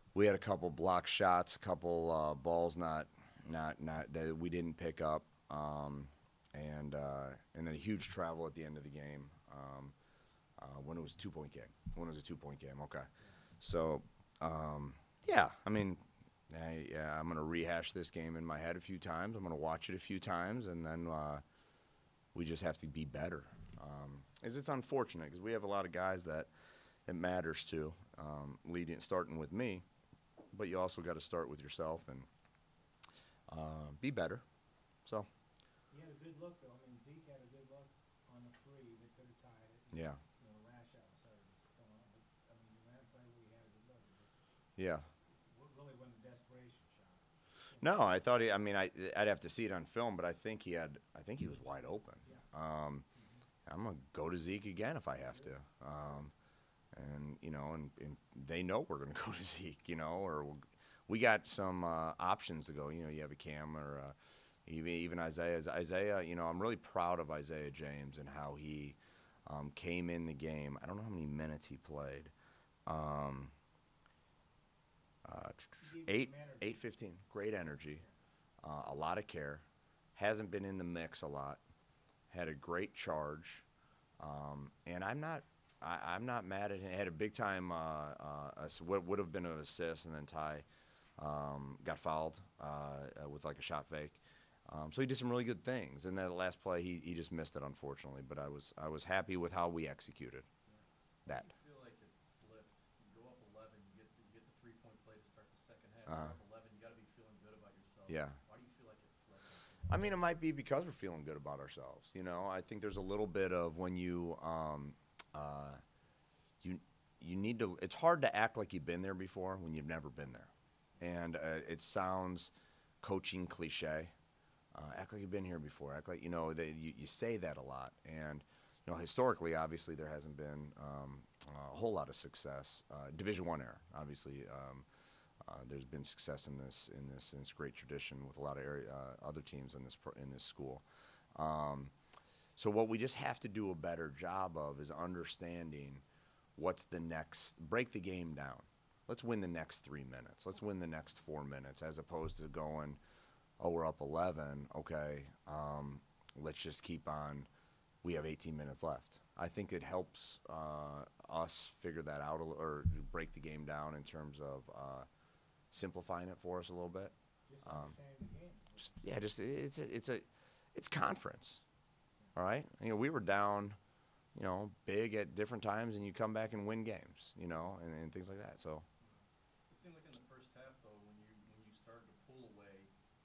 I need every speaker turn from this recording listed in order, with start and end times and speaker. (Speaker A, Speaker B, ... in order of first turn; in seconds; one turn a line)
Speaker A: 0.1-9.9
Speaker A: 10.6-13.1
Speaker B: 13.2-13.5
Speaker A: 13.6-21.4
Speaker A: 22.3-26.5
Speaker A: 27.1-29.8
Speaker A: 30.5-32.3
Speaker A: 33.5-34.4
Speaker B: 35.9-44.6
Speaker A: 39.9-40.2
Speaker A: 44.8-45.1
Speaker B: 45.2-48.0
Speaker A: 47.8-53.0
Speaker B: 52.2-52.5
Speaker B: 53.1-53.5
Speaker A: 53.6-56.3
Speaker B: 55.2-55.5
Speaker A: 56.9-72.3
Speaker A: 72.8-73.5
Speaker A: 75.2-78.0
Speaker B: 75.8-76.8
Speaker B: 77.8-78.1
Speaker A: 78.6-79.6
Speaker A: 80.1-81.6
Speaker A: 82.3-83.6
Speaker A: 84.2-90.7
Speaker A: 91.2-100.5
Speaker C: 101.2-110.2
Speaker A: 101.2-101.5
Speaker A: 106.1-106.3
Speaker A: 108.1-108.4
Speaker A: 109.9-115.8
Speaker A: 116.6-124.1
Speaker A: 124.7-134.8
Speaker A: 135.4-141.9
Speaker A: 142.6-146.0
Speaker A: 146.6-153.0
Speaker A: 153.6-157.5
Speaker A: 158.0-165.1
Speaker A: 165.7-167.9
Speaker B: 167.4-169.1
Speaker A: 168.8-171.6
Speaker A: 172.3-173.8
Speaker A: 174.3-178.8
Speaker C: 179.0-182.9